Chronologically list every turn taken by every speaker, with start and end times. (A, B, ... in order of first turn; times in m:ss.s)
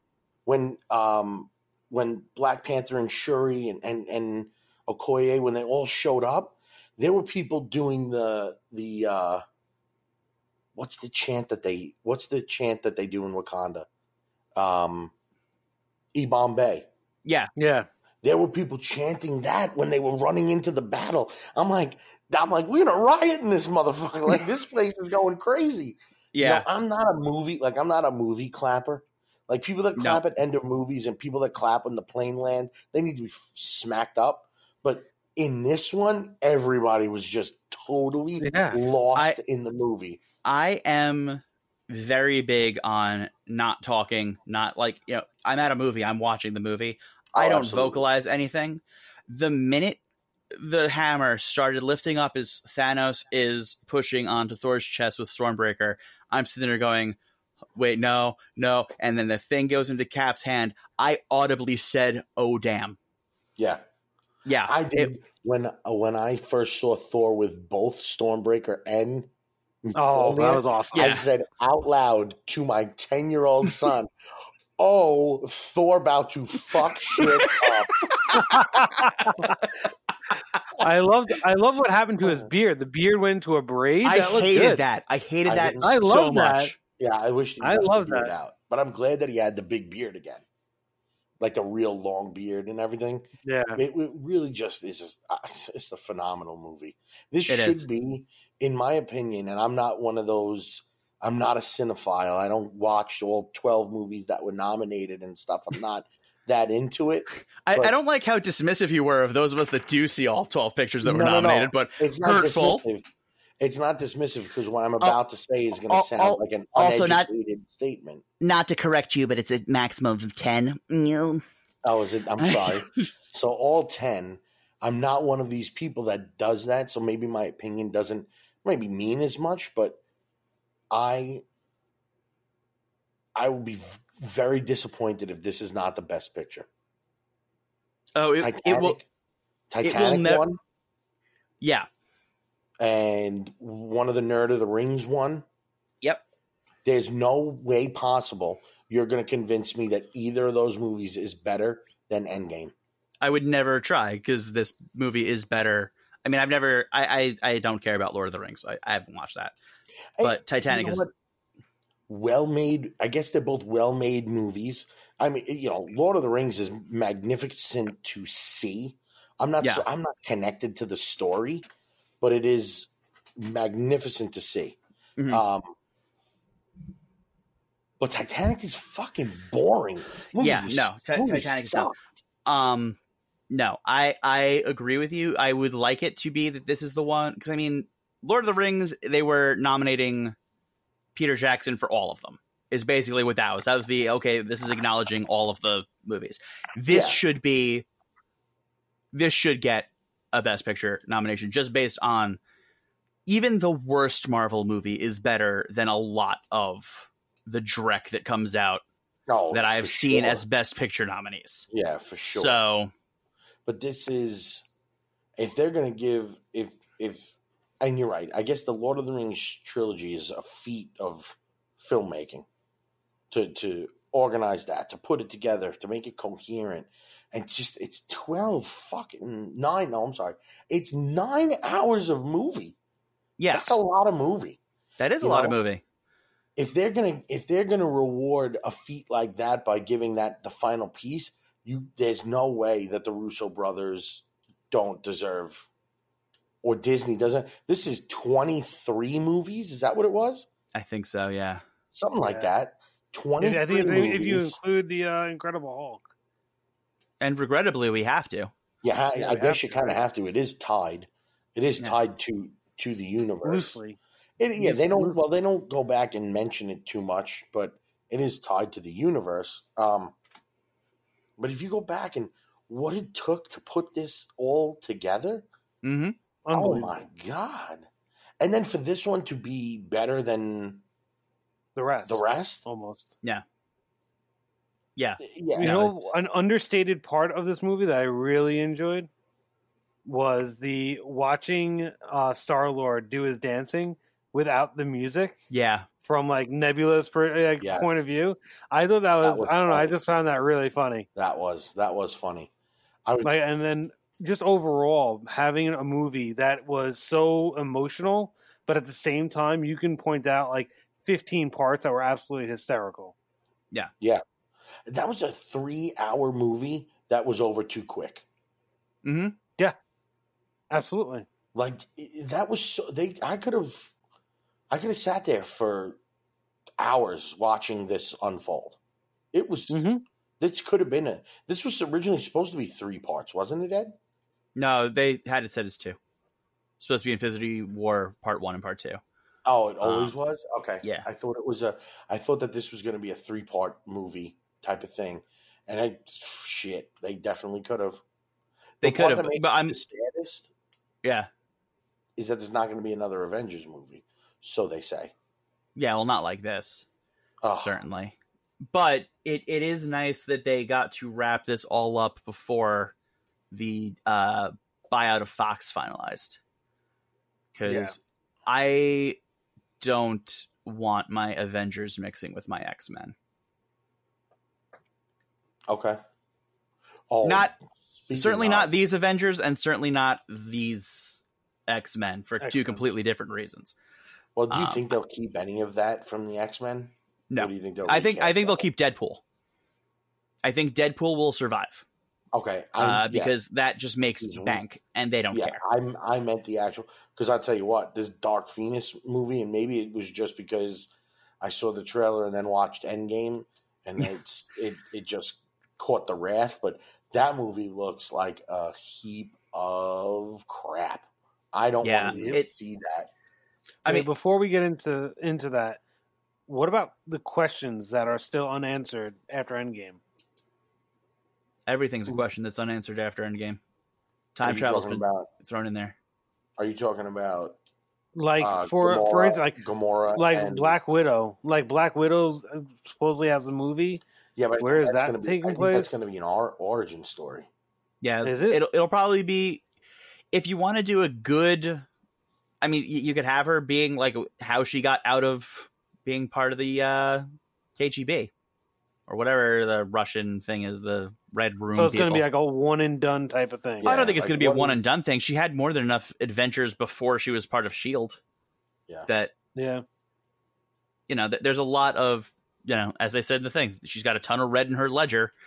0:00.5-0:09.4 A
0:10.8-0:13.9 A
0:14.6-0:15.1 A
0:16.1-0:16.9 A
0:17.2-0:17.5 B
0:17.6-0:17.9 C
0:18.2-0:40.2 A
0:26.3-0:26.7 B
0:38.4-0:38.8 C
0:40.4-0:50.0 B
0:47.3-0:48.0 A
0:50.5-0:57.2 B
0:57.8-1:03.0 B
1:04.4-1:05.1 B
1:04.6-1:09.3 A
1:09.8-1:14.1 A
1:10.0-1:11.2 C
1:10.9-1:11.2 B
1:14.8-1:18.4 A
1:18.3-1:19.6 C
1:20.8-1:24.8 C
1:22.2-1:22.5 A
1:24.0-1:26.8 B
1:25.5-1:25.9 A
1:25.8-1:26.7 C
1:27.0-1:30.4 A
1:27.6-1:28.3 C
1:31.4-1:48.0 A
1:33.4-1:33.8 C
1:37.5-1:37.8 B
1:47.6-1:52.8 B
1:51.0-1:53.0 A
1:53.6-1:58.2 A
1:55.9-1:57.3 B
1:58.4-2:01.4 B
2:01.8-2:10.0 A
2:02.4-2:03.1 B
2:10.9-2:11.4 A
2:13.4-2:16.7 A
2:18.2-2:19.0 B
2:18.4-2:19.1 A
2:19.7-2:20.6 A
2:19.8-2:20.4 B
2:21.6-2:21.9 B
2:22.8-2:25.4 A
2:26.8-2:32.7 A
2:33.2-2:39.6 B
2:40.2-2:41.1 A
2:40.2-2:41.0 B
2:42.1-2:51.6 A
2:52.2-2:54.8 A
2:55.2-2:55.4 B
2:55.3-2:55.7 A
2:58.0-3:02.0 A
3:00.4-3:01.9 B
3:02.5-3:03.0 B
3:03.5-3:10.4 B
3:11.2-3:17.8 B
3:16.9-3:17.2 A
3:19.1-3:22.4 B
3:23.3-3:28.8 B
3:29.3-3:30.4 A
3:29.5-3:31.7 B
3:31.7-3:32.6 A
3:32.3-3:32.9 B
3:33.7-3:34.7 A
3:35.4-3:42.5 A
3:43.3-3:52.8 A
3:53.4-3:53.7 B
3:53.5-3:54.6 A
3:55.0-3:55.8 B
3:55.2-3:55.6 A
3:56.6-4:05.7 A
4:06.6-4:10.5 A
4:10.8-4:11.6 B
4:11.9-4:14.6 A
4:12.2-4:12.5 C
4:13.4-4:16.1 C
4:17.2-4:18.5 B
4:18.8-4:23.8 A
4:19.2-4:20.0 C
4:23.4-4:24.0 C
4:24.4-4:30.2 A
4:24.6-4:25.2 C
4:31.4-4:35.5 A
4:35.8-4:36.2 B
4:36.4-4:37.0 C
4:36.5-4:37.9 A
4:38.4-4:40.8 A
4:41.8-4:43.1 C
4:42.1-4:42.7 A
4:45.0-4:45.9 B
4:45.2-4:46.1 A
4:45.6-4:49.1 C
4:50.0-4:55.4 C
4:55.5-4:55.9 B
4:56.0-5:01.1 C
4:57.6-4:58.0 A
4:59.2-5:00.0 A
5:01.2-5:02.5 A
5:03.1-5:03.3 A
5:03.2-5:13.1 C
5:14.9-5:18.2 A
5:19.0-5:19.4 B
5:20.7-5:21.3 C
5:21.6-5:23.9 A
5:24.7-5:26.0 A
5:26.8-5:28.8 A
5:29.3-5:29.8 A
5:29.7-5:30.0 C
5:30.4-5:34.0 A
5:34.6-5:36.0 B
5:36.8-5:39.0 B
5:39.5-5:48.0 A
5:39.8-5:40.1 B
5:48.8-5:49.8 B
5:48.8-5:50.5 A
5:51.0-5:51.3 B
5:52.2-5:55.1 A
5:55.8-5:56.8 B
5:57.4-5:57.8 A
5:57.6-5:58.2 B
5:58.7-6:02.9 B
6:03.5-6:06.4 B
6:07.6-6:09.2 B
6:07.7-6:08.0 C
6:09.8-6:13.2 B
6:15.7-6:16.0 A
6:17.1-6:18.7 A
6:17.2-6:17.6 B
6:18.1-6:23.7 B
6:22.4-6:22.8 C
6:24.4-6:28.6 A
6:24.5-6:24.8 B
6:27.3-6:29.2 B
6:30.4-6:31.8 B
6:32.3-6:33.3 A
6:32.8-6:35.6 B
6:34.2-6:34.6 A
6:35.3-6:40.9 A
6:41.4-6:53.1 A
6:51.8-6:52.5 B
6:52.1-6:52.4 C
6:53.9-6:55.8 C
6:56.5-7:00.0 C
7:01.7-7:03.6 B
7:04.4-7:06.0 B
7:04.4-7:05.3 A
7:06.6-7:07.6 A
7:08.2-7:09.6 C
7:08.4-7:10.8 A
7:10.1-7:14.0 C
7:14.4-7:17.5 A
7:14.6-7:16.0 C
7:18.0-7:19.6 B
7:18.2-7:18.6 C
7:20.3-7:21.9 B
7:22.6-7:27.3 B
7:27.8-7:28.3 B
7:29.1-7:32.2 B
7:31.7-7:33.9 C
7:33.8-7:34.8 A
7:33.8-7:38.2 B
7:39.6-7:39.8 C
7:41.1-7:45.3 B